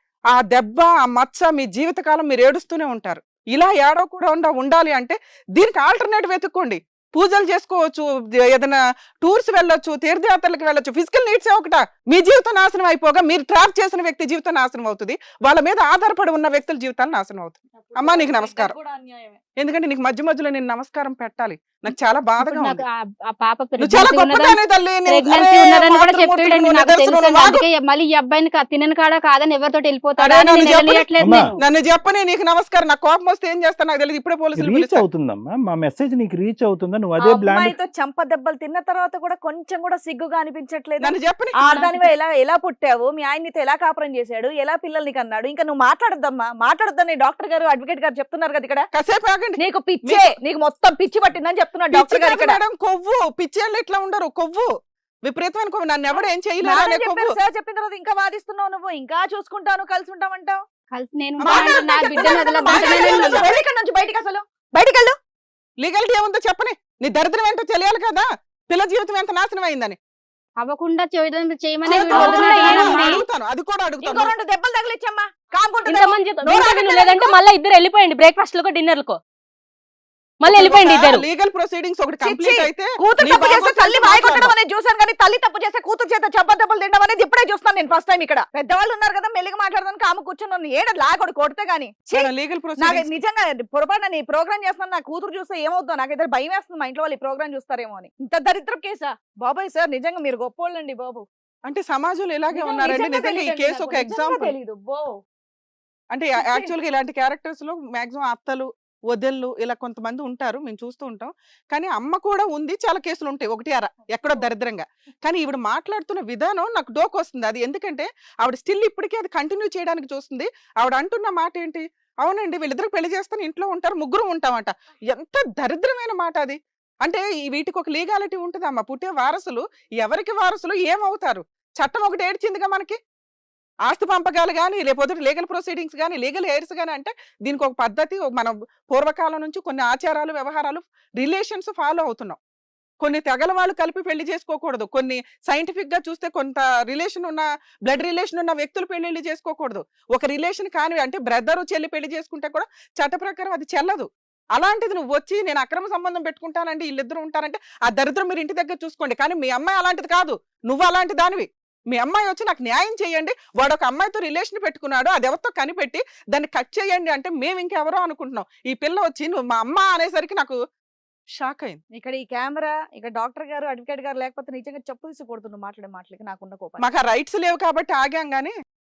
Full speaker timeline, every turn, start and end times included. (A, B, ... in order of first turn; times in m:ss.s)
0:00.3-0:18.7 A
0:17.8-0:19.4 B
0:19.6-0:22.8 A
0:22.4-0:24.6 C
0:23.8-0:27.6 A
0:25.2-0:31.5 C
0:30.2-0:35.0 A
0:30.3-0:31.5 D
0:31.2-0:31.5 E
0:34.6-0:37.8 E
0:37.2-0:48.9 B
0:41.0-0:41.8 A
0:48.9-0:50.3 A
0:49.6-0:52.6 B
0:51.9-0:54.7 A
0:55.3-0:57.4 A
0:56.2-1:00.6 B
1:00.9-1:03.4 C
1:01.4-1:03.5 A
1:01.4-1:05.2 B
1:02.6-1:03.1 D
1:05.8-1:10.0 A
1:10.6-1:12.0 C
1:11.2-1:13.2 D
1:11.9-1:14.3 A
1:11.9-1:13.2 B
1:14.0-1:17.4 B
1:15.9-1:19.2 D
1:20.4-1:21.2 D
1:20.4-1:24.5 A
1:22.2-1:41.2 B
1:32.1-1:33.2 A
1:41.7-1:44.5 A
1:42.5-1:45.2 B
1:46.1-2:13.0 A
1:46.4-1:46.7 B
2:13.9-2:22.4 A
2:23.0-2:50.6 A
2:51.4-2:51.8 A
2:52.0-2:56.9 B
2:56.8-2:58.6 A